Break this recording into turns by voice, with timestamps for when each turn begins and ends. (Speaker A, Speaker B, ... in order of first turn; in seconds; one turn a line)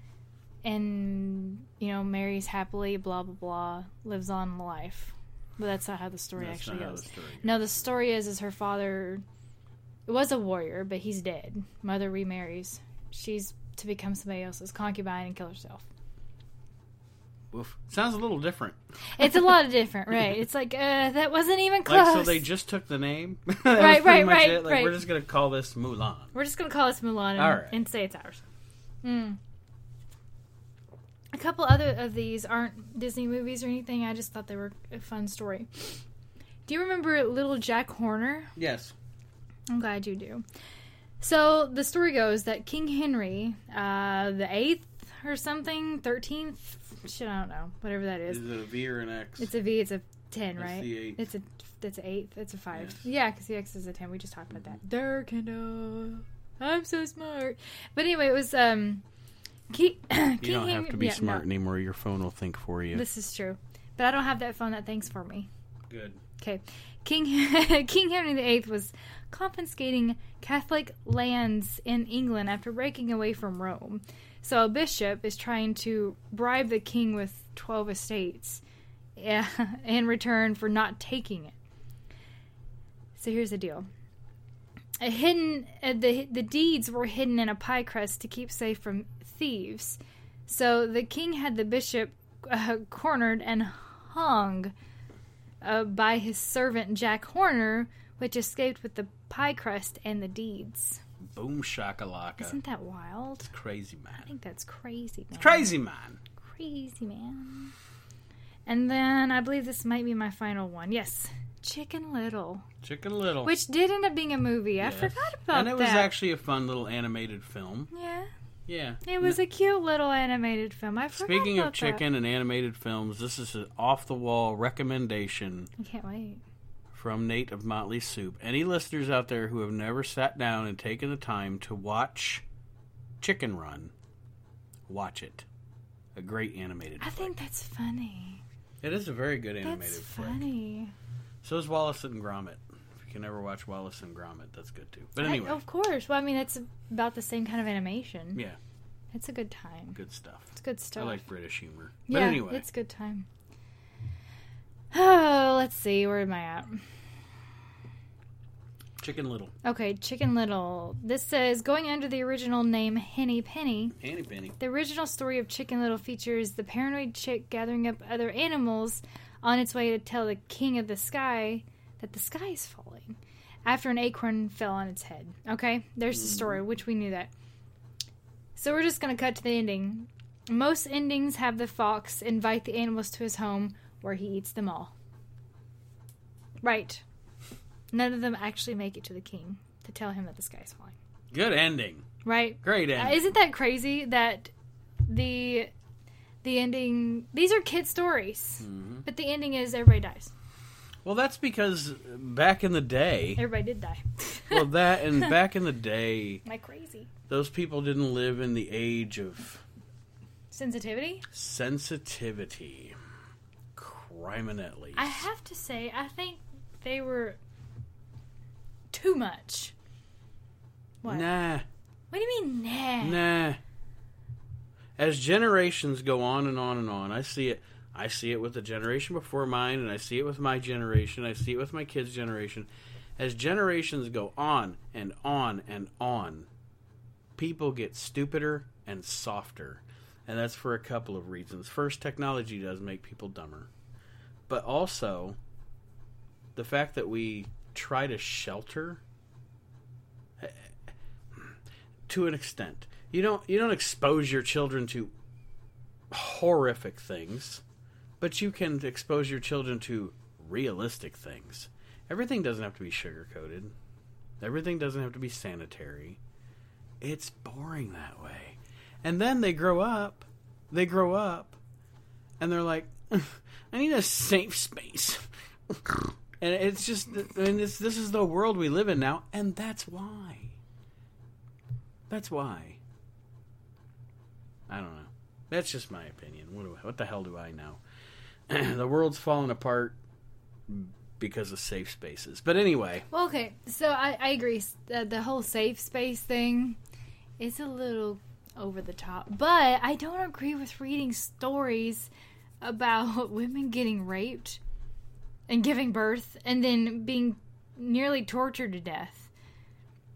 Speaker A: 0.6-9.2
Speaker B: 6.4-7.7
Speaker A: 10.1-15.8
Speaker B: 17.5-18.8
Speaker A: 19.1-22.4
Speaker B: 21.8-26.3
Speaker A: 23.7-25.0
Speaker A: 26.3-28.4
Speaker B: 27.4-27.8
Speaker A: 29.0-29.4
Speaker A: 31.3-36.0
Speaker A: 36.6-38.5
Speaker B: 38.5-38.9
Speaker A: 39.7-40.4
Speaker A: 41.2-48.5
Speaker B: 48.3-49.5
Speaker A: 49.4-59.0
Speaker B: 50.6-51.2
Speaker B: 52.7-53.0
Speaker A: 59.7-61.4
Speaker B: 60.4-63.0
Speaker A: 62.9-65.5
Speaker B: 65.9-66.2
Speaker A: 66.4-78.6
Speaker A: 79.2-81.5
Speaker A: 83.2-83.9
Speaker A: 85.0-94.7
Speaker A: 95.6-101.0
Speaker B: 101.3-102.6
Speaker A: 102.4-103.5
Speaker B: 103.5-104.3
Speaker A: 104.2-105.7
Speaker B: 105.4-106.2
Speaker A: 106.4-107.7
Speaker A: 108.7-112.7
Speaker B: 112.8-113.5
Speaker A: 113.4-116.1
Speaker B: 114.8-117.9
Speaker A: 117.9-118.3
Speaker B: 118.7-119.3
Speaker A: 119.0-122.0
Speaker B: 121.1-125.7
Speaker A: 125.8-126.4
Speaker B: 126.9-132.4
Speaker B: 133.2-133.9
Speaker B: 134.9-135.4
Speaker B: 136.2-137.3
Speaker A: 137.0-138.4
Speaker B: 138.8-140.4
Speaker A: 139.6-140.9
Speaker B: 141.4-145.6
Speaker A: 145.2-148.4
Speaker A: 149.1-150.0
Speaker B: 149.9-152.6
Speaker A: 150.5-151.2
Speaker A: 152.1-153.3
Speaker A: 154.9-156.8
Speaker B: 159.0-159.5
Speaker A: 159.6-163.9
Speaker B: 163.9-164.6
Speaker A: 164.6-177.3
Speaker A: 178.6-184.9
Speaker A: 186.6-187.0
Speaker A: 187.9-190.9
Speaker B: 191.3-192.1
Speaker A: 192.2-194.5
Speaker B: 192.6-193.2
Speaker A: 195.1-195.7
Speaker A: 196.4-200.3
Speaker B: 198.6-199.0
Speaker B: 201.0-203.4
Speaker A: 203.4-205.3
Speaker B: 204.5-206.4
Speaker A: 206.4-207.1
Speaker B: 207.3-209.6
Speaker A: 210.5-211.2
Speaker B: 211.3-212.9
Speaker B: 213.7-215.2
Speaker A: 214.9-217.4
Speaker A: 218.9-219.7
Speaker A: 221.0-221.3
Speaker B: 221.1-221.6
Speaker A: 222.1-223.2
Speaker B: 223.0-223.6
Speaker B: 225.0-236.5
Speaker B: 237.4-243.7
Speaker B: 244.5-245.4
Speaker B: 246.6-249.0
Speaker B: 250.4-250.7
Speaker B: 252.1-255.1
Speaker B: 256.1-257.6
Speaker B: 258.2-263.7
Speaker B: 264.4-266.2
Speaker B: 267.0-271.6
Speaker B: 272.4-280.5
Speaker B: 282.1-282.8
Speaker B: 284.7-287.8
Speaker B: 288.5-290.0
Speaker B: 290.7-293.1
Speaker A: 293.1-296.8
Speaker A: 297.4-302.1
Speaker A: 302.6-304.6
Speaker A: 305.5-309.3